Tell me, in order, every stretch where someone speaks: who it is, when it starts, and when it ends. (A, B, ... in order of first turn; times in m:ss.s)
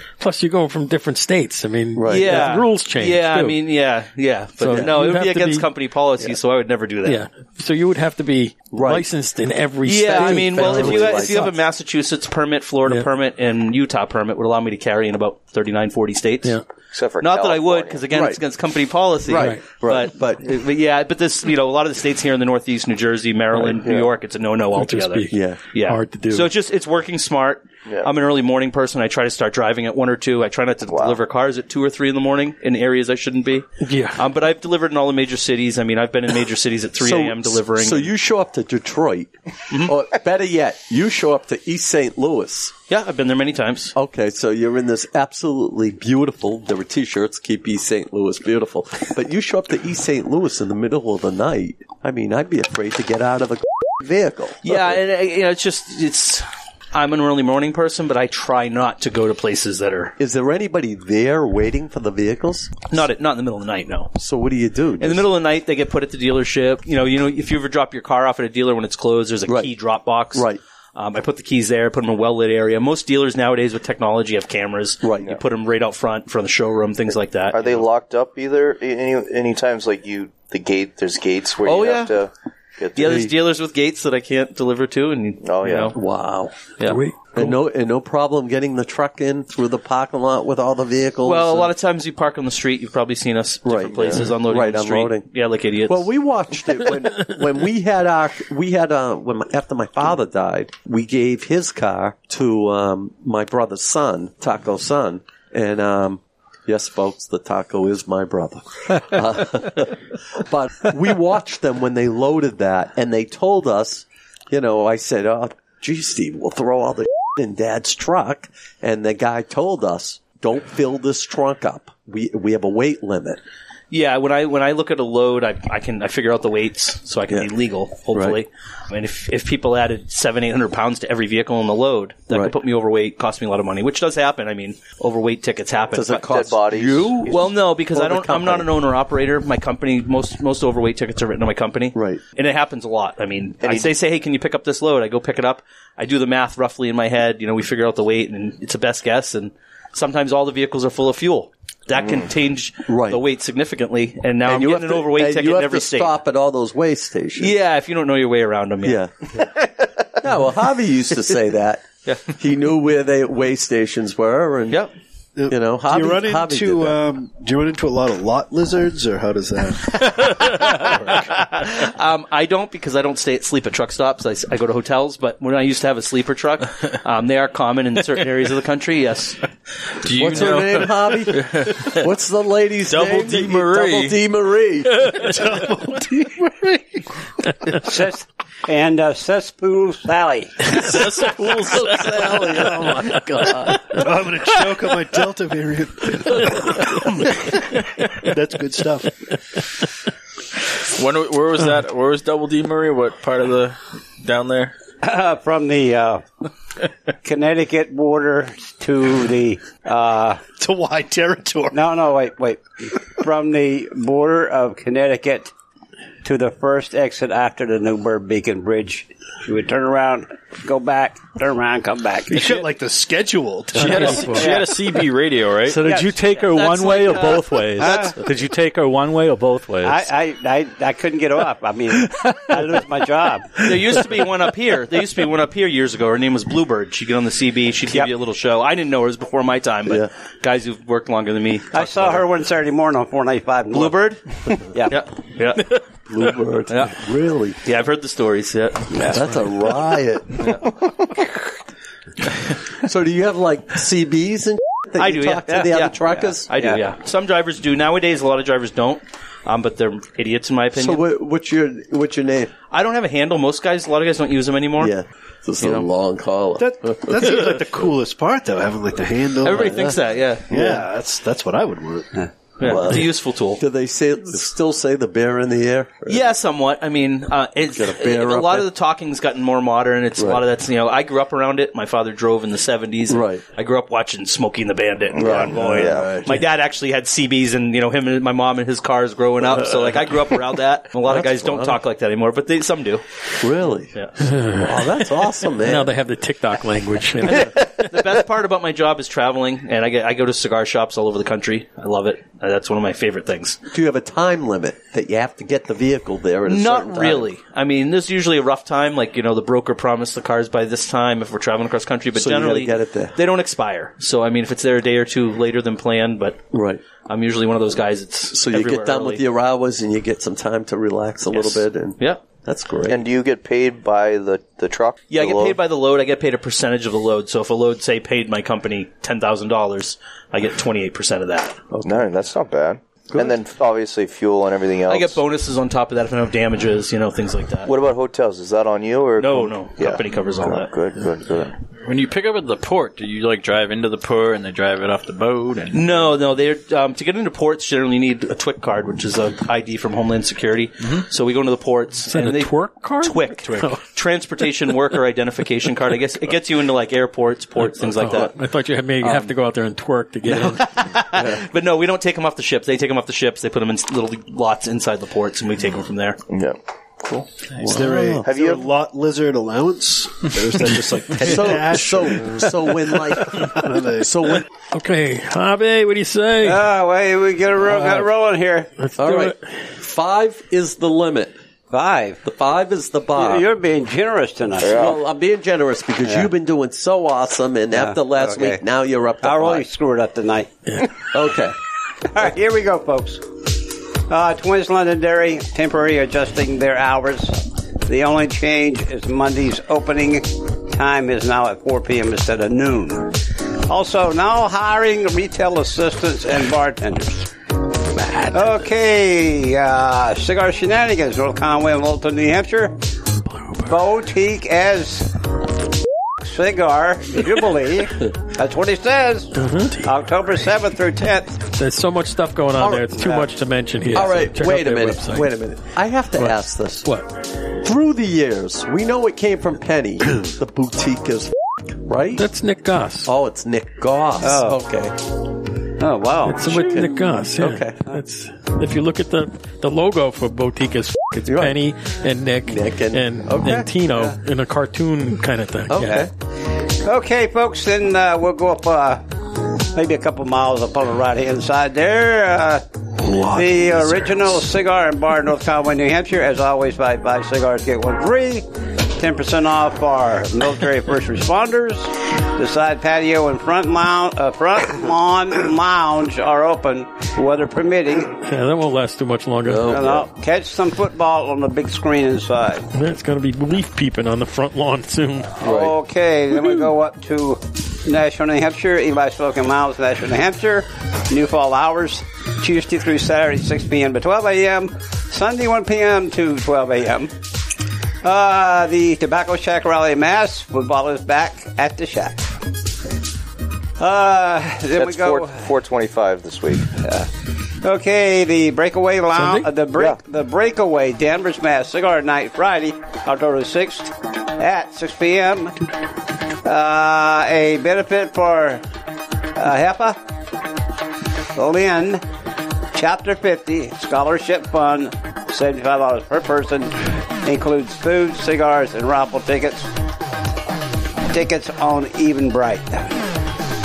0:00.2-0:03.6 A
0:02.0-0:02.5 B
0:02.1-0:07.2 C
0:04.6-0:05.7 A
0:04.7-0:04.9 B
0:07.0-0:11.5 A
0:08.7-0:09.1 B
0:09.8-0:16.6 C
0:10.0-0:11.5 B
0:16.9-0:18.1 D
0:17.2-0:38.1 C
0:18.1-0:18.4 B
0:19.3-0:20.4 B
0:19.3-0:19.6 A
0:23.7-0:24.1 D
0:24.8-0:26.5 A
0:25.3-0:25.6 B
0:27.8-0:28.1 D
0:30.9-0:31.2 D
0:33.8-0:34.2 A
0:37.0-0:42.7 B
0:42.9-0:43.9 C
0:43.9-0:54.9 B
0:54.6-1:00.1 C
1:00.2-1:02.8 B
1:02.9-1:04.1 C
1:04.2-1:05.2 B
1:05.0-1:17.8 C
1:10.3-1:10.6 B
1:15.0-1:15.4 B
1:17.5-1:23.3 D
1:21.6-1:22.1 C
1:23.0-1:26.0 C
1:25.4-1:25.9 D
1:25.9-1:26.7 B
1:26.8-1:27.5 A
1:27.3-1:31.7 B
1:31.2-1:36.1 C
1:33.6-1:35.3 B
1:33.9-1:34.2 D
1:35.9-2:03.4 B
2:03.9-2:16.3 C
2:08.1-2:08.4 B
2:15.9-2:18.7 B
2:16.2-2:17.5 D
2:17.3-2:36.1 C
2:21.9-2:22.2 B
2:23.6-2:23.9 D
2:32.0-2:32.3 D
2:32.9-2:33.2 B
2:34.4-2:37.5 B
2:37.4-2:39.0 C
2:38.8-2:39.1 B
2:40.2-2:44.8 B
2:45.4-2:51.2 E
2:45.5-2:47.0 B
2:51.4-2:59.4 C
3:00.0-3:02.0 F
3:00.1-3:05.1 B
3:02.9-3:04.2 F
3:05.1-3:07.0 E
3:07.8-3:10.7 G
3:10.7-3:13.7 F
3:10.9-3:13.8 B
3:13.9-3:17.5 E
3:18.0-3:19.1 E
3:20.9-3:24.7 F
3:25.0-3:26.2 G
3:27.2-3:30.4 G
3:30.6-3:31.9 E
3:31.7-3:35.5 G
3:36.2-3:42.5 G
3:42.3-3:44.4 E
3:43.7-3:44.5 A
3:43.8-3:45.8 F
3:44.3-3:44.8 G
3:45.7-3:50.0 H
3:45.8-3:46.2 G
3:46.5-3:48.1 C
3:47.8-3:48.1 G
3:49.8-3:53.6 G
3:52.0-3:52.6 H
3:53.6-4:02.2 C
4:01.7-4:04.1 G
4:03.7-4:04.2 C
4:04.7-4:05.0 G
4:04.9-4:05.8 C
4:06.1-4:07.6 B
4:06.7-4:07.0 C
4:07.6-4:09.0 C
4:08.9-4:09.2 G
4:09.0-4:10.5 B
4:12.8-4:16.5 B
4:15.0-4:21.0 C
4:16.5-4:16.8 G
4:20.7-4:22.5 B
4:22.7-4:24.9 C
4:24.8-4:27.6 B
4:25.6-4:25.9 C
4:26.6-4:30.0 E
4:29.4-4:30.4 C
4:29.5-4:29.9 B
4:30.5-4:32.2 E
4:32.6-4:33.6 C
4:32.6-4:36.3 B
4:36.1-4:53.0 C
4:37.7-4:38.7 B
4:43.1-4:43.5 B
4:45.1-4:46.2 D
4:45.2-4:46.4 B
4:51.0-4:51.8 B
4:53.4-4:53.9 B
4:54.3-4:54.6 A
4:54.5-4:55.9 B
4:55.6-4:57.6 A
4:57.3-5:03.6 C
5:03.7-5:07.3 B
5:06.5-5:16.4 C
5:12.1-5:13.2 B
5:16.5-5:16.8 B
5:17.0-5:19.2 C
5:18.3-5:23.0 B
5:21.3-5:22.2 C
5:22.9-5:25.6 D
5:25.1-5:31.6 C
5:31.7-5:32.1 B
5:31.8-5:35.2 D
5:34.9-5:37.7 C
5:37.6-5:41.5 D
5:39.2-5:40.7 C
5:41.8-5:46.1 F
5:45.7-5:58.3 C
5:52.1-5:53.8 A
5:57.7-6:00.6 A
5:59.0-5:59.3 C
6:00.4-6:06.2 C
6:06.3-6:06.6 D
6:07.6-6:14.4 E
6:07.6-6:08.2 B
6:08.2-6:08.7 D
6:11.2-6:14.4 B
6:14.7-6:16.6 A
6:16.4-6:18.7 G
6:18.8-6:19.5 A
6:19.0-6:21.3 B
6:21.7-6:22.2 G
6:22.2-6:23.5 B
6:23.1-6:24.8 G
6:24.6-6:25.0 D
6:24.6-6:29.7 B
6:26.0-6:26.3 G
6:27.7-6:28.6 G
6:29.2-6:30.5 G
6:31.1-6:31.5 B
6:32.1-6:33.2 G
6:34.1-6:43.2 G
6:43.7-6:47.3 G
6:48.3-6:52.8 G
6:53.3-6:53.7 A
6:53.7-6:55.1 G
6:56.2-7:01.4 G
6:59.3-7:00.0 A
7:01.5-7:05.3 A
7:02.6-7:03.2 B
7:03.0-7:03.3 G
7:03.9-7:06.8 B
7:06.2-7:07.1 A
7:07.6-7:12.2 B
7:12.1-7:13.1 A
7:13.0-7:14.9 B
7:14.2-7:14.6 G
7:15.8-7:16.8 G
7:16.2-7:26.0 A
7:16.4-7:17.8 B
7:21.3-7:21.6 B
7:22.5-7:23.7 B
7:25.7-7:26.1 B
7:25.8-7:26.1 G
7:26.8-7:29.0 G
7:29.7-7:32.6 G
7:33.0-7:34.5 E
7:33.3-7:38.4 G
7:39.0-7:48.1 G
7:48.2-7:49.8 A
7:49.5-7:50.1 B
7:49.7-7:52.6 G
7:52.7-7:55.4 A
7:55.4-7:55.7 B
7:55.4-8:07.1 G
8:08.0-8:12.3 G
8:13.8-8:15.4 G
8:14.8-8:16.7 D
8:16.8-8:17.1 G
8:17.6-8:25.5 G
8:19.1-8:19.5 A
8:26.4-8:28.6 G
8:29.4-8:30.0 G
8:31.3-8:32.0 G
8:32.7-8:39.7 G
8:41.1-8:43.0 G